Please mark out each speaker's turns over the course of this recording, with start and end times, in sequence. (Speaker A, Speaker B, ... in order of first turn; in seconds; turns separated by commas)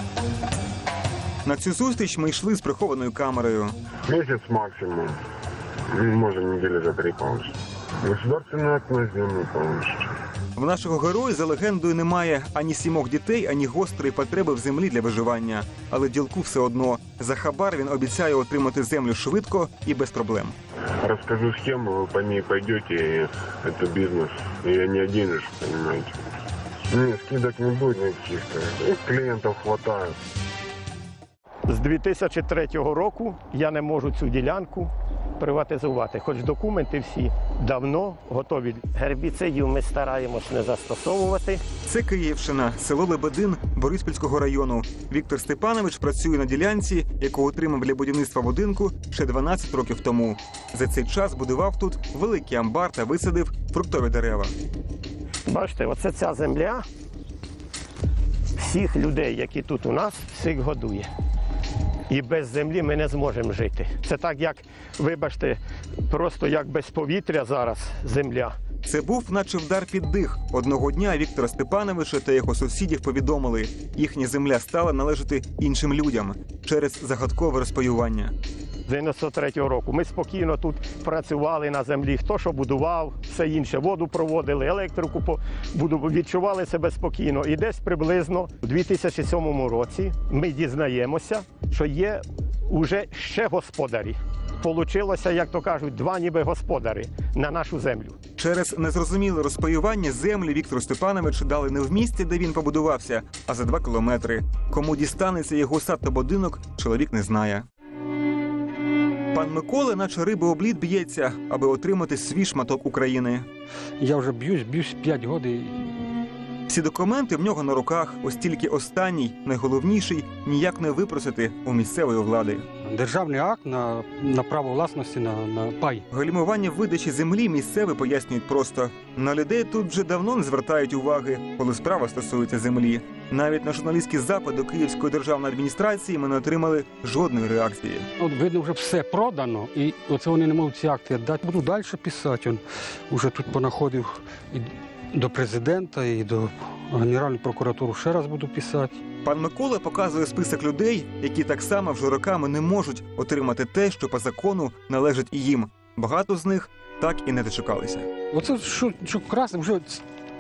Speaker A: 1.4-3.8, Speaker B: 4.0-5.2, Speaker B: 5.9-10.1, Speaker A: 10.6-20.5, Speaker B: 21.0-26.2, Speaker B: 26.9-30.2, Speaker C: 31.7-41.6, Speaker A: 41.8-54.5, Speaker C: 55.5-56.8, Speaker C: 58.6-61.1, Speaker C: 62.1-68.5, Speaker A: 68.8-78.3, Speaker C: 78.9-98.2, Speaker A: 98.4-107.7, Speaker A: 109.3-113.5, Speaker D: 114.0-115.8, Speaker A: 116.7-122.7, Speaker D: 122.8-126.0, Speaker A: 126.1-138.1, Speaker D: 138.2-149.0, Speaker A: 149.2-158.1, Speaker D: 158.3-160.0